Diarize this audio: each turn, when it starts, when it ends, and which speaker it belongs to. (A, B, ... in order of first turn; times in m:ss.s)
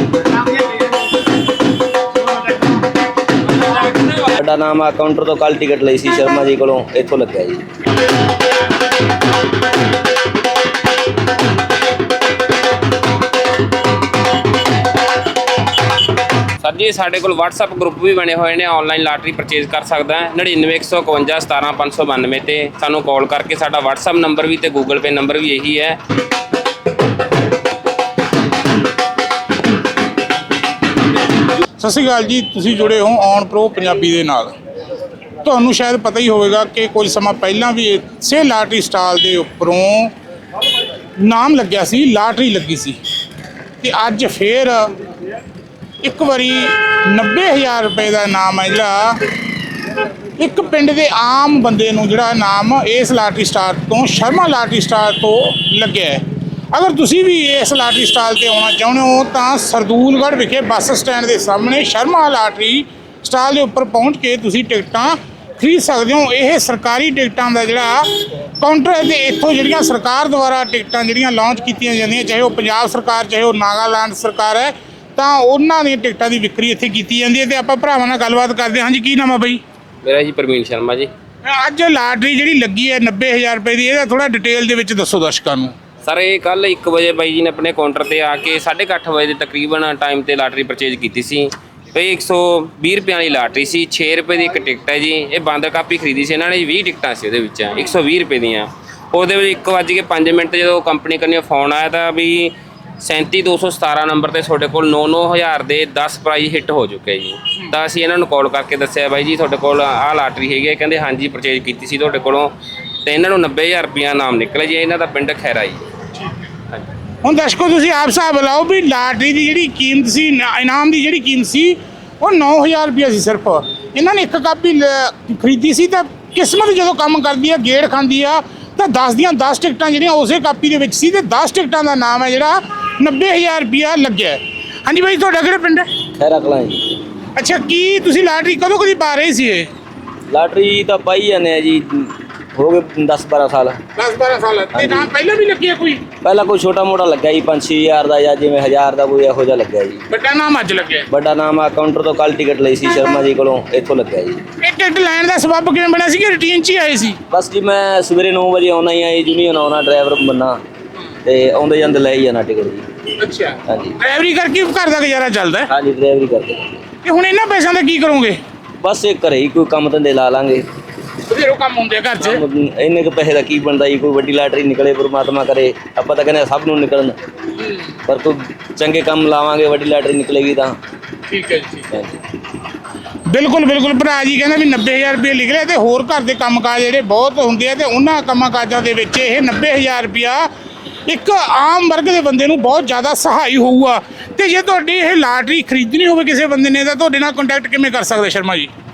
0:04.1-0:07.6 A
0:16.6-0:26.0 B
0:31.8-0:34.5 C
0:35.4-0:40.1 C
0:41.2-0:43.0 C
0:43.8-0:44.9 C
0:46.0-0:49.2 C
0:50.4-1:19.6 C
1:20.0-1:21.1 B
1:21.4-1:25.7 C
1:26.0-1:52.5 B
1:53.0-1:55.8 B
1:57.2-2:15.9 C
2:16.2-2:17.0 A
2:17.4-2:19.7 C
2:20.3-2:23.8 A
2:24.0-2:26.0 C
2:24.7-2:25.1 A
2:26.2-2:30.0 A
2:30.1-2:31.1 C
2:31.1-2:34.4 A
2:34.6-2:37.2 C
2:37.3-2:40.6 A
2:41.2-2:42.8 A
2:43.2-2:45.7 C
2:43.7-2:44.0 A
2:45.7-2:46.6 A
2:47.0-2:48.4 C
2:48.8-2:50.6 A
2:51.3-2:52.4 C
2:52.2-2:57.2 A
2:58.0-3:00.8 A
3:01.3-3:01.9 C
3:01.9-3:02.2 A
3:03.3-3:10.4 C
3:11.1-3:18.7 C